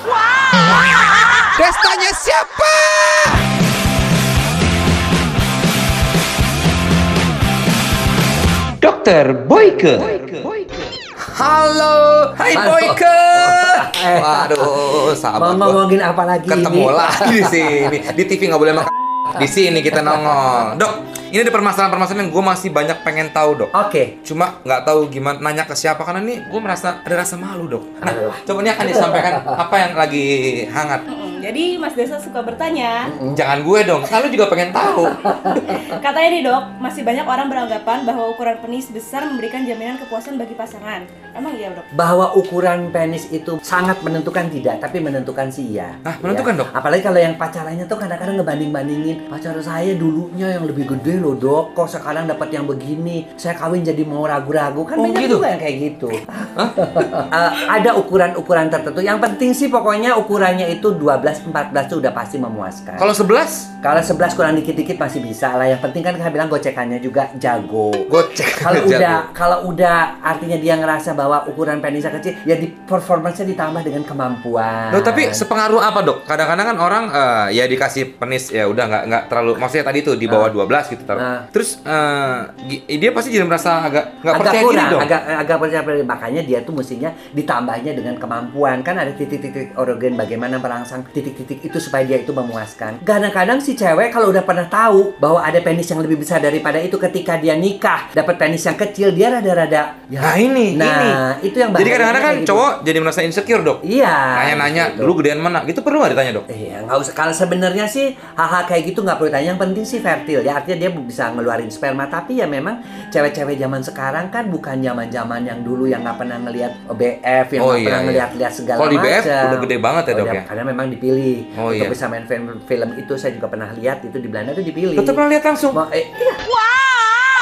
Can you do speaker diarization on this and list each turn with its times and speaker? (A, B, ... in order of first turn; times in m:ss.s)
0:01.4-0:03.4 A
0:08.8-0:10.6 A
0:09.7-0:10.7 B
0:11.2-0:15.8 A
0:12.4-0:18.0 B
0:16.5-0:23.7 A
0:23.7-0:24.2 B
0:24.2-0:31.0 A
0:28.0-0:29.6 B
0:31.1-0:33.1 C
0:33.0-0:33.4 B
0:33.2-0:35.8 A
0:35.6-0:41.8 C
0:41.9-1:03.1 B
0:46.0-0:46.7 A
0:55.0-0:55.4 A
0:56.6-0:57.1 A
1:03.0-1:03.7 A
1:03.8-1:08.1 B
1:08.1-1:09.3 A
1:08.6-1:15.4 B
1:14.9-1:25.1 A
1:20.3-1:20.5 B
1:21.1-1:21.4 B
1:24.3-1:42.7 B
1:40.2-1:41.2 A
1:41.8-1:43.8 A
1:43.8-1:45.1 B
1:44.3-1:46.4 A
1:46.5-2:05.2 B
1:57.6-1:58.2 A
1:58.8-2:00.4 A
2:01.6-2:01.9 A
2:05.0-2:05.8 A
2:05.7-2:06.4 B